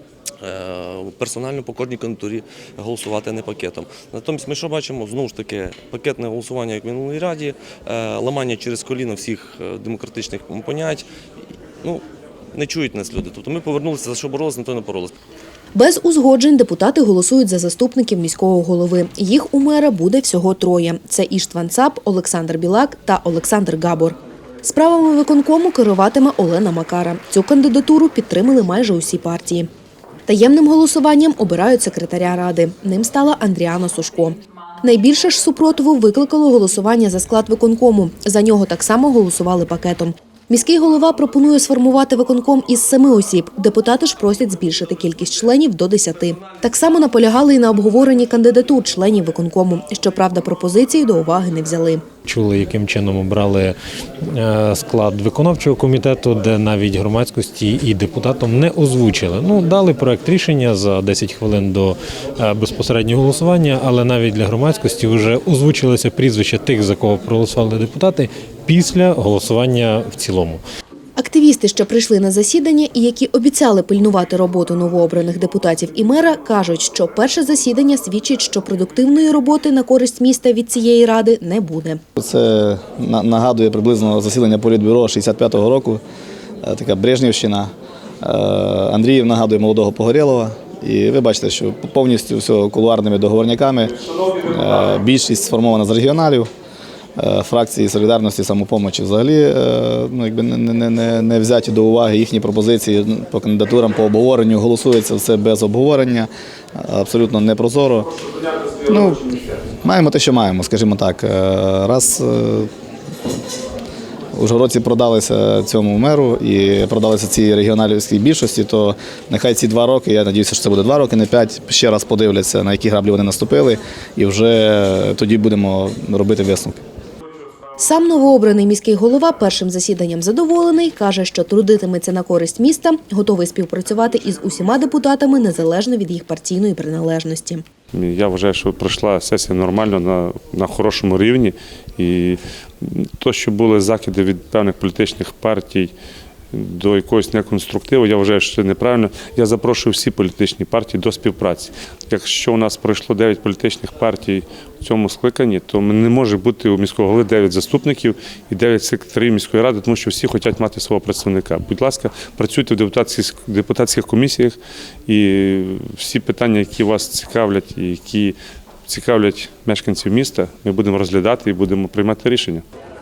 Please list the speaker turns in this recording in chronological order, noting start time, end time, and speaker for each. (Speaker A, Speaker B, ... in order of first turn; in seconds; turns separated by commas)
Speaker A: 0.4-11.1, Speaker A: 11.8-15.1, Speaker B: 15.7-29.7, Speaker B: 30.3-52.0, Speaker C: 52.2-53.8, Speaker C: 54.3-70.6, Speaker B: 71.2-82.0, Speaker D: 82.2-86.0, Speaker D: 86.6-96.5, Speaker D: 97.2-112.7, Speaker D: 114.3-126.8, Speaker B: 127.8-137.6, Speaker E: 137.9-145.9, Speaker E: 146.5-172.7